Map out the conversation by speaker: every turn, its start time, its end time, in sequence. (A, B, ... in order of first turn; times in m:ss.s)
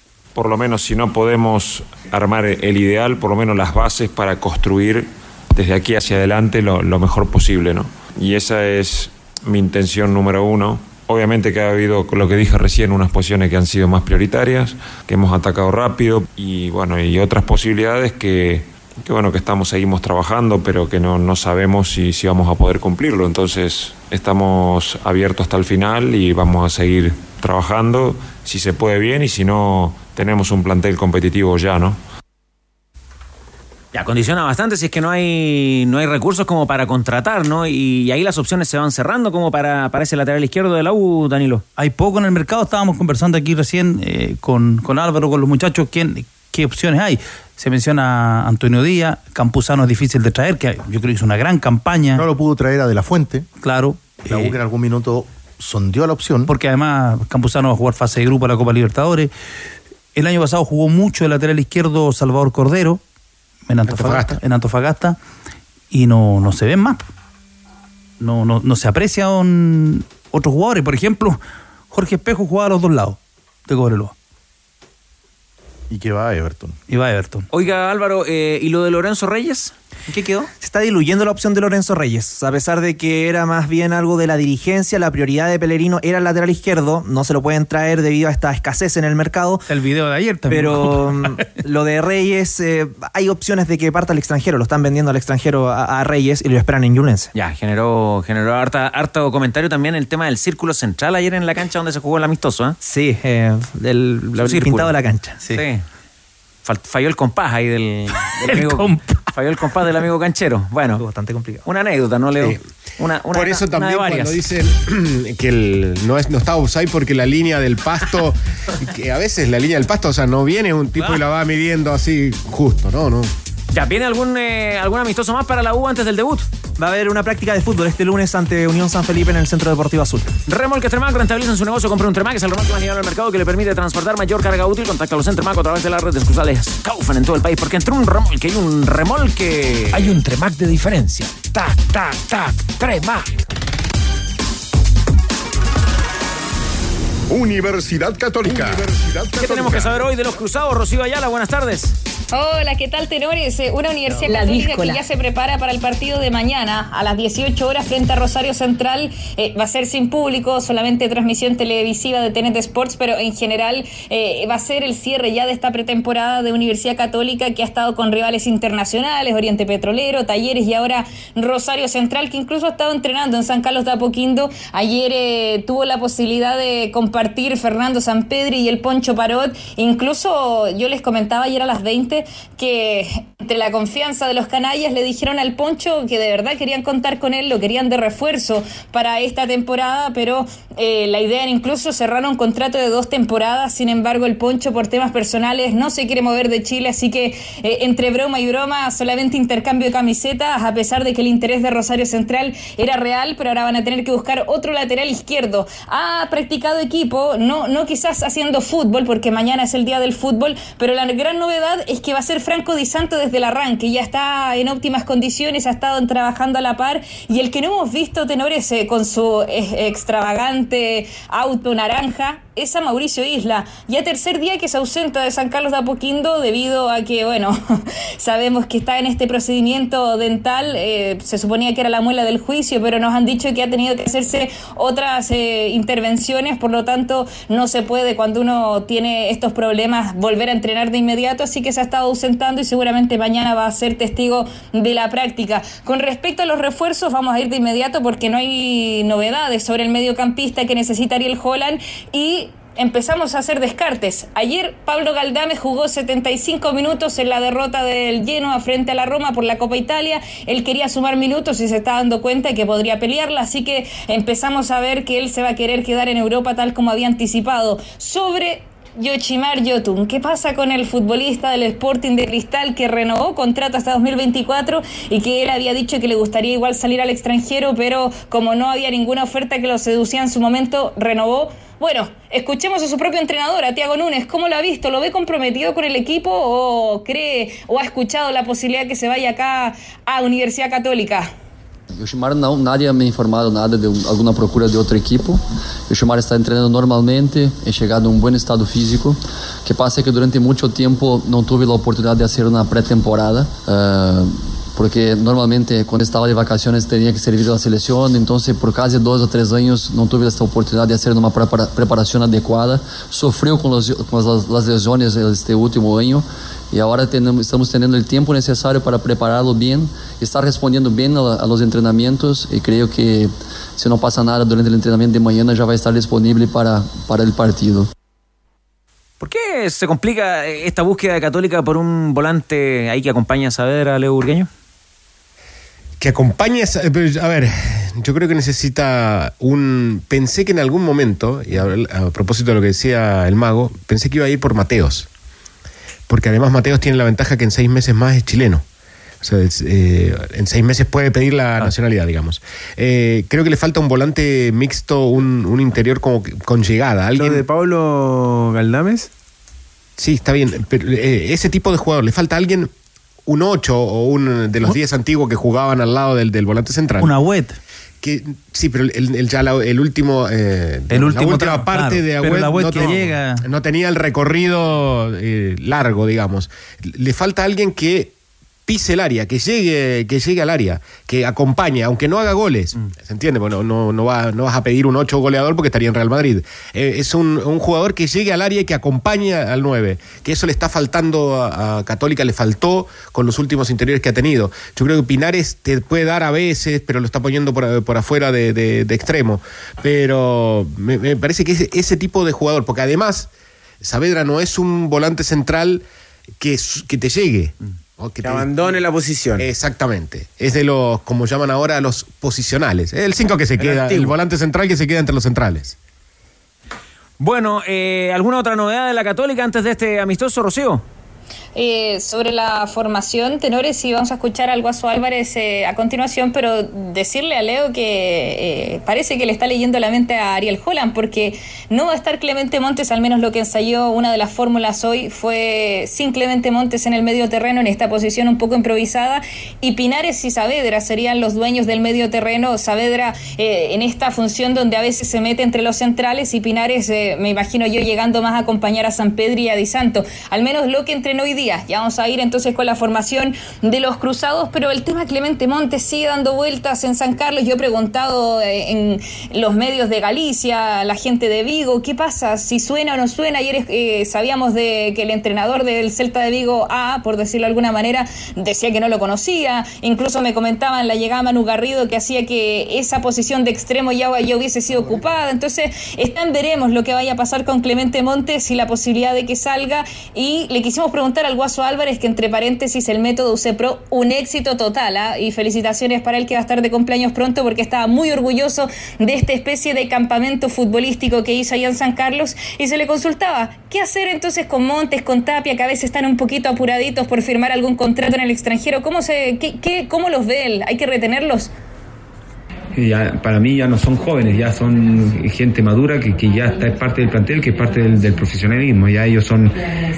0:00.4-0:32.0 A
0:33.9-0:41.6 B
0:41.8-0:52.2 C
0:52.2-0:53.5 D
0:53.6-0:54.5 C
0:54.3-0:56.5 D
0:56.5-0:59.3 C
1:00.1-1:03.0 C
1:03.7-1:05.2 C
1:03.9-1:04.4 E
1:05.9-1:07.0 C
1:08.2-1:11.4 C
1:11.9-1:14.1 C
1:15.9-1:16.8 D
1:16.9-1:17.4 C
1:17.5-1:20.4 B
1:20.4-1:29.6 F
1:29.7-1:31.4 C
1:30.5-1:37.3 F
1:37.3-1:42.8 B
1:42.8-1:45.6 F
1:44.4-1:44.9 B
1:45.5-1:45.8 B
1:46.6-1:51.0 B
1:48.4-1:49.0 C
1:51.0-1:51.6 F
1:51.6-1:54.4 B
1:53.3-2:03.3 E
2:03.7-2:06.4 B
2:06.8-2:10.3 F
2:10.5-2:20.1 B
2:19.9-2:23.3 G
2:27.3-2:30.1 H
2:29.4-2:31.9 B
2:32.3-3:47.6 I
2:34.3-2:34.9 F
3:48.2-4:51.3 I
4:52.0-5:27.9 J
5:29.2-5:34.5 B
5:36.0-5:45.1 E
5:46.1-5:48.6 E
5:49.2-5:57.4 E
5:57.1-5:59.1 K
6:00.0-6:02.7 E
6:03.3-6:07.1 E
6:07.0-6:07.6 C
6:08.0-6:18.1 E
6:10.9-6:13.4 C
6:18.7-6:43.3 E
6:43.8-6:45.8 E
6:46.4-6:48.8 E
6:48.2-6:49.4 K
6:49.4-6:55.8 E
6:53.6-6:54.1 K
6:57.2-7:00.8 B
7:01.6-8:21.5 I
8:22.7-8:29.7 L